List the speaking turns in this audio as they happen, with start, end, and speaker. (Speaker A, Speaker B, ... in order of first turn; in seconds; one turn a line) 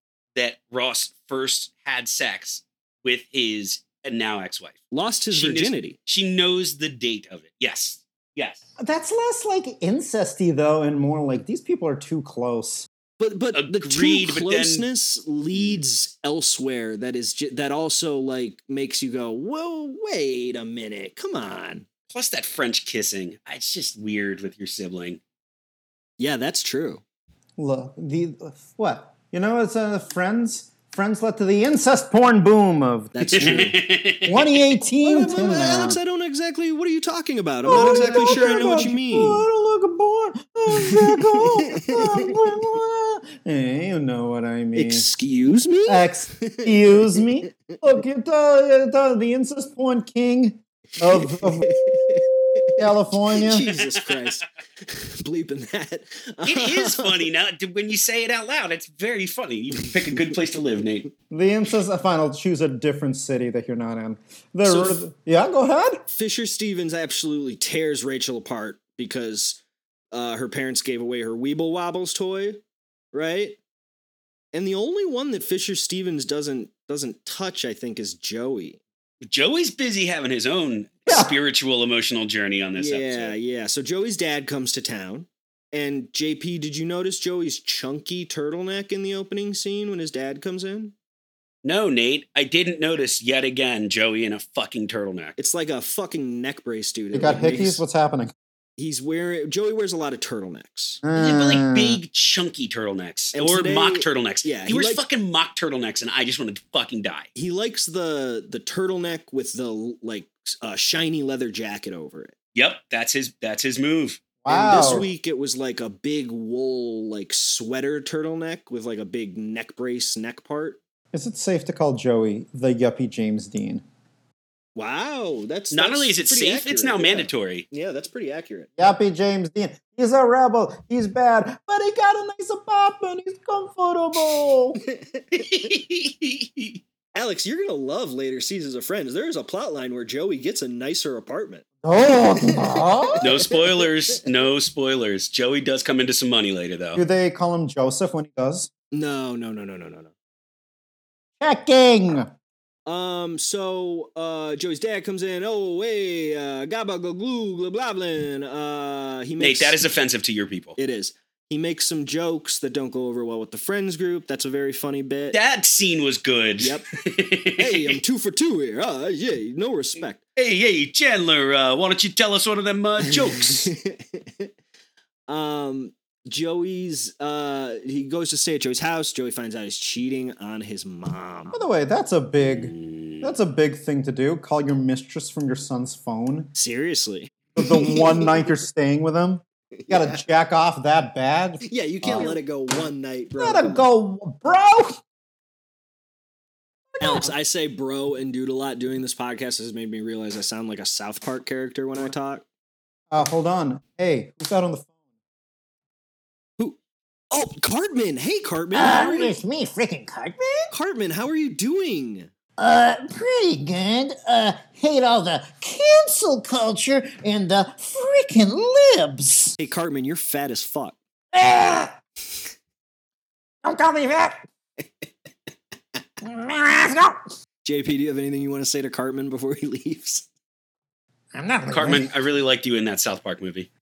Speaker A: 0.3-8.6
Speaker B: 4.9-6.0
Speaker C: 8.8-12.9
Speaker B: 13.2-21.9
Speaker A: 13.5-14.9
Speaker A: 15.5-15.8
Speaker A: 22.1-25.2
Speaker B: 26.2-27.0
Speaker C: 27.6-36.0
Speaker B: 33.1-33.8
Speaker A: 33.3-34.7
Speaker B: 35.0-39.4
Speaker C: 37.6-45.1
Speaker A: 38.0-38.5
Speaker B: 40.7-42.4
Speaker B: 44.8-47.8
Speaker C: 45.9-51.7
Speaker B: 51.1-57.3
Speaker C: 52.8-53.6
Speaker A: 53.6-54.3
Speaker A: 56.4-61.1
Speaker C: 61.3-66.0
Speaker B: 64.6-65.0
Speaker B: 66.1-69.6
Speaker B: 70.1-73.6
Speaker B: 74.5-78.8
Speaker A: 79.2-83.4
Speaker C: 81.1-81.3
Speaker B: 82.8-90.9
Speaker A: 91.6-95.4
Speaker B: 95.4-97.8
Speaker C: 97.1-98.3
Speaker B: 98.8-101.0
Speaker C: 101.0-102.0
Speaker A: 101.1-107.3
Speaker B: 103.3-105.0
Speaker B: 107.3-112.4
Speaker A: 112.5-114.2
Speaker C: 114.4-115.1
Speaker B: 114.5-120.8
Speaker C: 121.1-123.8
Speaker B: 124.8-128.7
Speaker A: 125.7-127.7
Speaker C: 128.8-134.8
Speaker B: 134.8-135.7
Speaker A: 135.3-136.8
Speaker B: 137.1-141.7
Speaker C: 141.8-143.3
Speaker B: 142.4-144.2
Speaker A: 143.2-147.0
Speaker C: 147.0-148.7
Speaker B: 148.9-150.1
Speaker C: 151.4-152.3
Speaker B: 152.9-159.8
Speaker A: 159.4-160.8
Speaker B: 160.8-165.4
Speaker A: 165.3-168.0
Speaker B: 166.6-166.9
Speaker B: 167.6-170.2
Speaker A: 170.4-173.7
Speaker B: 173.2-174.5
Speaker B: 175.3-181.6
Speaker C: 181.5-186.5
Speaker A: 182.4-183.3
Speaker B: 186.6-188.5
Speaker C: 187.6-192.4
Speaker B: 189.8-190.2
Speaker B: 191.7-193.9
Speaker C: 193.4-195.0
Speaker C: 196.9-197.3
Speaker B: 197.0-202.4
Speaker C: 203.1-204.9
Speaker B: 207.3-209.3
Speaker C: 208.7-210.7
Speaker B: 210.7-212.3
Speaker C: 212.6-219.6
Speaker B: 219.6-221.0
Speaker C: 221.3-221.9
Speaker C: 223.7-224.4
Speaker C: 226.2-227.2
Speaker B: 227.6-230.3
Speaker C: 231.3-232.1
Speaker A: 231.7-233.7